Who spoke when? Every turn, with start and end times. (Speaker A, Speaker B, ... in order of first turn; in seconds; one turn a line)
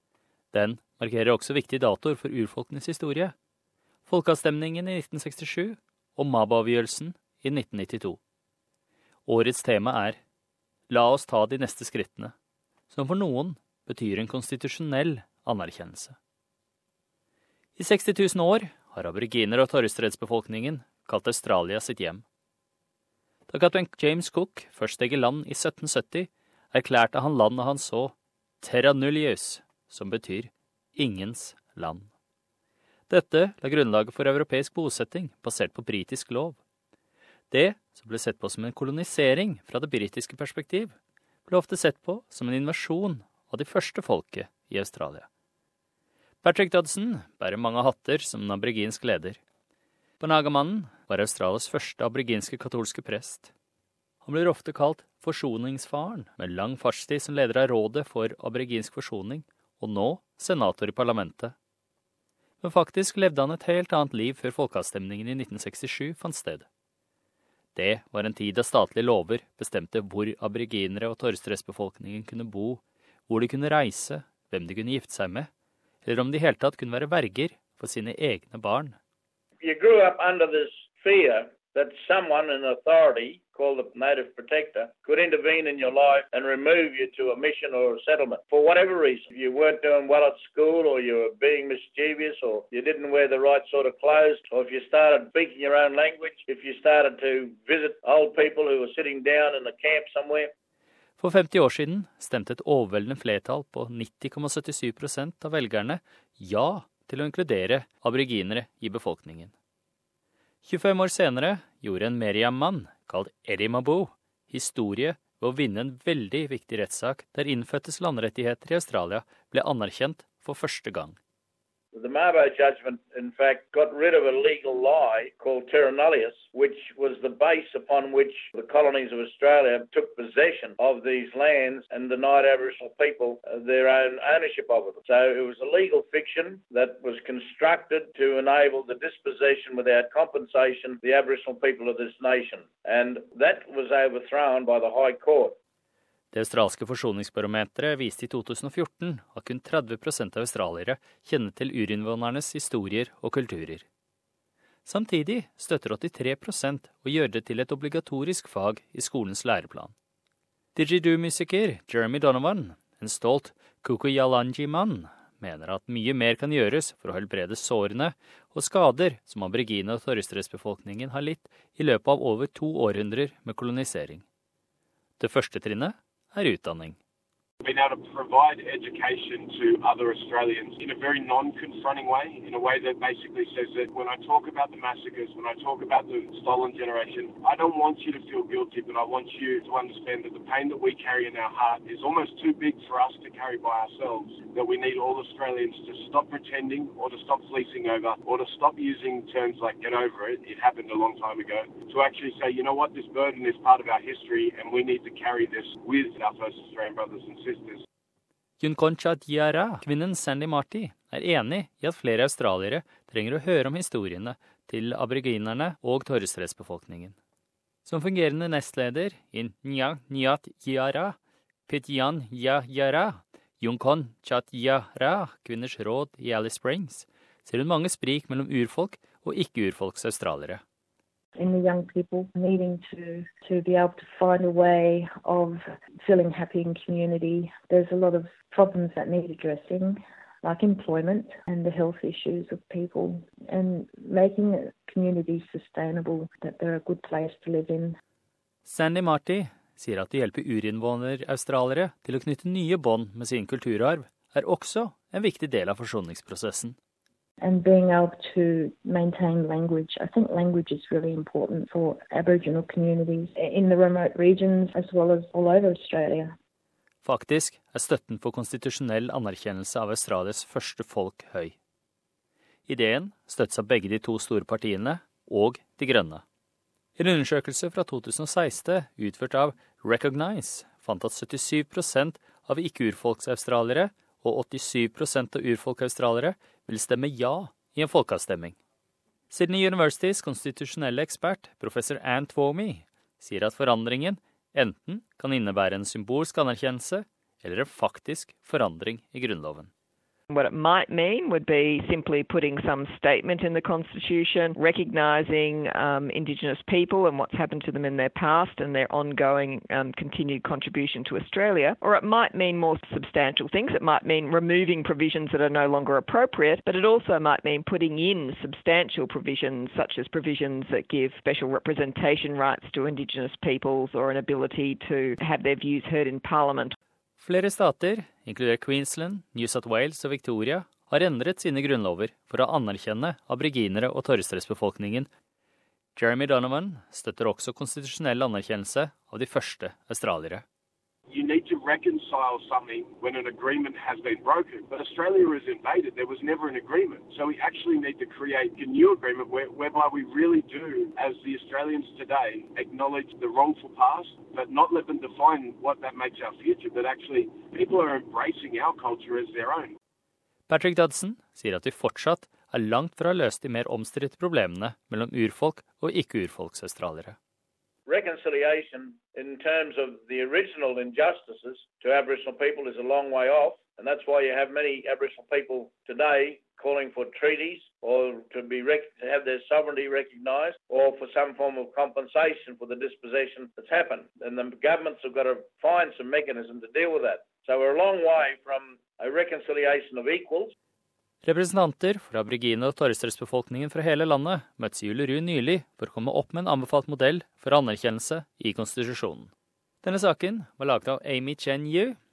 Speaker A: 0.5-3.3
Speaker A: 4.1-8.2
Speaker A: 9.3-10.2
Speaker A: 10.9-12.3
Speaker A: 12.9-16.2
Speaker A: 17.8-22.2
Speaker A: 23.5-32.1
Speaker A: 33.1-36.6
Speaker A: 37.5-41.0
Speaker A: 41.5-45.3
Speaker A: 46.4-49.4
Speaker A: 50.2-53.5
Speaker A: 54.2-61.5
Speaker A: 62.6-66.7
Speaker A: 67.8-75.5
Speaker A: 76.0-79.0
Speaker B: 79.6-100.5
Speaker A: 101.2-109.5
Speaker A: 110.6-121.2
Speaker B: 121.9-145.6
Speaker A: 146.3-153.8
Speaker A: 154.9-159.9
Speaker A: 160.8-174.2
Speaker A: 175.2-177.0
Speaker C: 177.6-207.8
Speaker A: 208.6-217.2
Speaker A: 217.8-230.6
Speaker D: 231.4-248.0
Speaker A: 248.7-256.8
Speaker D: 257.4-266.3
Speaker A: 267.0-271.6
Speaker A: 272.7-276.2
Speaker A: 277.0-288.6
Speaker A: 289.3-299.7
Speaker E: 300.3-326.8
Speaker A: 327.2-335.1
Speaker A: 335.9-340.4
Speaker C: 341.1-359.8
Speaker A: 360.5-367.2
Speaker B: 367.9-390.5
Speaker A: 391.2-399.3
Speaker A: 399.8-402.0